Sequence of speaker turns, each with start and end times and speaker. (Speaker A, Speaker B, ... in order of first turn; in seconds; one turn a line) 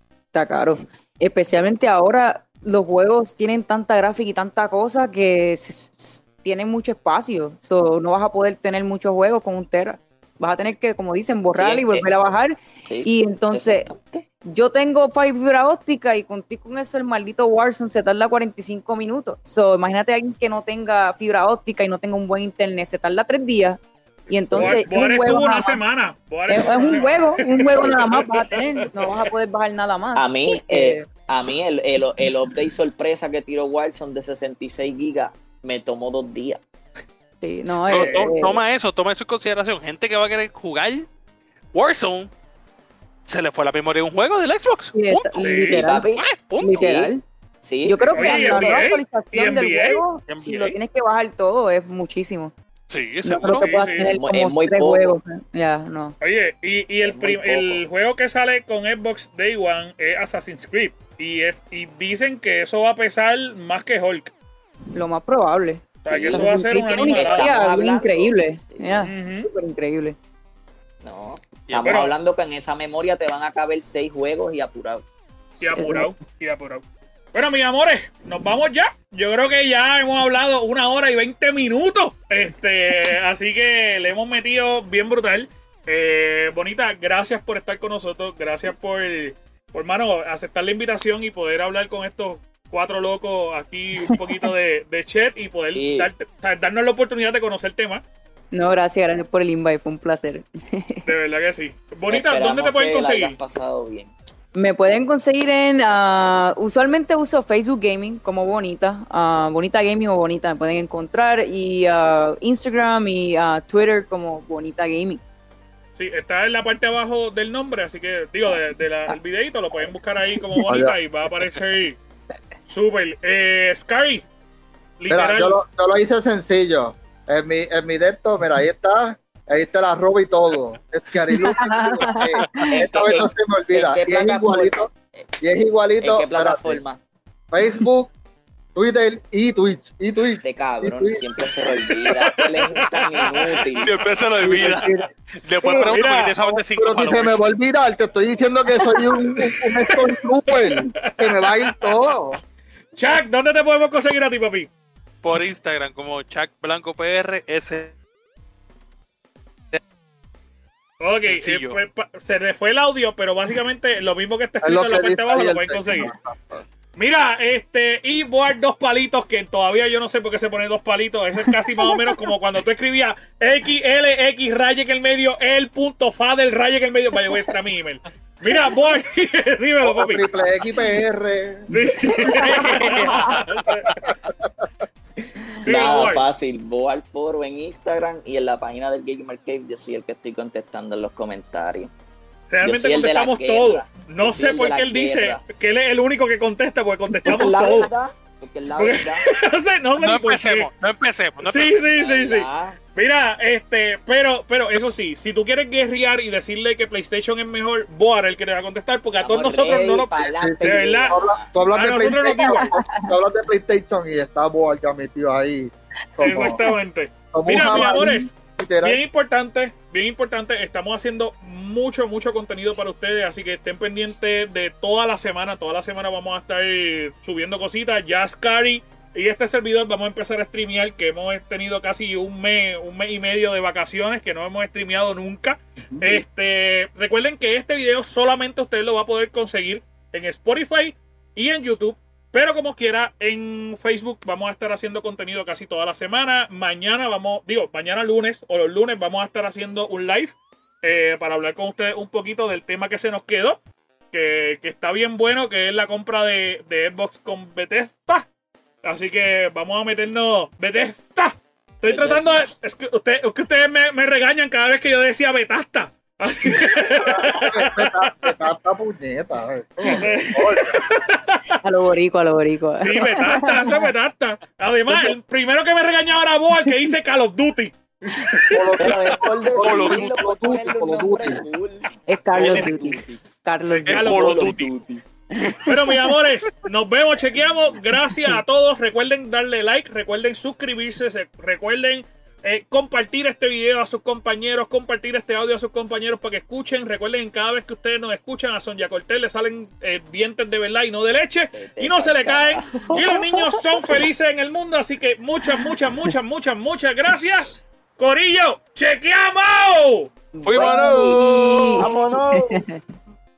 Speaker A: 0.3-13.9
Speaker B: 11.5-12.1
Speaker B: 12.8-14.3
Speaker A: 14.4-25.8
Speaker B: 24.5-24.9
Speaker C: 24.5-29.2
Speaker A: 26.5-31.1
Speaker B: 26.5-27.1
Speaker B: 27.7-28.3
Speaker B: 30.1-36.6
Speaker A: 37.4-38.6
Speaker D: 37.9-41.1
Speaker B: 37.9-38.3
Speaker D: 41.7-42.3
Speaker D: 43.3-46.9
Speaker A: 44.9-46.1
Speaker C: 45.4-45.7
Speaker B: 45.6-48.9
Speaker A: 46.6-47.2
Speaker A: 47.9-52.5
Speaker C: 48.1-50.0
Speaker D: 50.3-50.8
Speaker D: 52.9-53.8
Speaker A: 53.2-56.2
Speaker C: 53.6-54.1
Speaker B: 54.0-55.2
Speaker C: 56.2-64.3
Speaker B: 57.0-57.8
Speaker A: 65.0-70.2
Speaker C: 66.0-67.5
Speaker B: 66.1-69.0
Speaker C: 69.0-69.5
Speaker B: 71.0-75.0
Speaker C: 71.8-72.1
Speaker A: 75.6-76.1
Speaker C: 75.6-98.0
Speaker A: 94.1-94.5
Speaker B: 95.7-96.1
Speaker A: 98.5-101.0
Speaker C: 101.1-103.4
Speaker B: 102.1-104.1
Speaker A: 104.5-115.2
Speaker C: 116.0-122.0
Speaker E: 120.7-121.0
Speaker C: 122.7-124.2
Speaker C: 125.0-125.6
Speaker E: 125.1-134.9
Speaker A: 131.3-132.8
Speaker B: 132.7-135.3
Speaker E: 135.4-136.8
Speaker B: 136.0-137.0
Speaker E: 137.5-138.1
Speaker E: 138.8-141.7
Speaker B: 140.4-143.9
Speaker C: 142.0-143.8
Speaker D: 143.8-147.5
Speaker E: 144.4-145.1
Speaker C: 145.6-146.3
Speaker E: 145.7-152.4
Speaker C: 149.0-152.2
Speaker C: 152.9-154.7
Speaker D: 155.2-157.9
Speaker C: 161.0-166.1
Speaker D: 161.3-161.8
Speaker E: 164.6-166.7
Speaker C: 167.0-180.3
Speaker A: 171.8-172.2
Speaker A: 177.3-177.5
Speaker E: 179.8-181.7
Speaker C: 181.7-184.1
Speaker A: 182.0-182.6
Speaker D: 182.5-183.4
Speaker E: 184.1-184.7
Speaker C: 185.6-186.2
Speaker B: 185.7-191.9
Speaker C: 192.5-197.9
Speaker B: 192.6-195.6
Speaker A: 197.2-197.7
Speaker B: 197.2-199.3
Speaker C: 198.8-200.7
Speaker D: 200.0-201.8
Speaker C: 201.4-211.2
Speaker B: 201.9-202.8
Speaker B: 209.2-211.5
Speaker E: 210.4-216.6
Speaker C: 211.7-212.7
Speaker A: 212.3-213.1
Speaker A: 216.2-216.8
Speaker C: 216.2-253.6
Speaker E: 217.3-219.0
Speaker A: 217.8-218.2
Speaker E: 235.9-236.2
Speaker C: 254.1-258.2
Speaker C: 258.8-268.3
Speaker B: 261.9-262.5
Speaker E: 267.0-270.8
Speaker C: 269.8-271.6
Speaker A: 271.6-273.9
Speaker C: 272.8-278.9
Speaker E: 278.5-281.4
Speaker B: 278.8-283.2
Speaker D: 279.6-280.5
Speaker A: 282.1-284.1
Speaker D: 282.4-283.0
Speaker D: 283.7-284.7
Speaker C: 283.9-284.6
Speaker B: 283.9-285.0
Speaker A: 285.3-286.0
Speaker C: 285.6-310.1
Speaker A: 288.1-288.4
Speaker B: 301.5-303.1
Speaker A: 302.9-303.6
Speaker A: 310.3-312.8
Speaker D: 310.4-312.2
Speaker B: 310.6-311.2
Speaker B: 311.8-312.6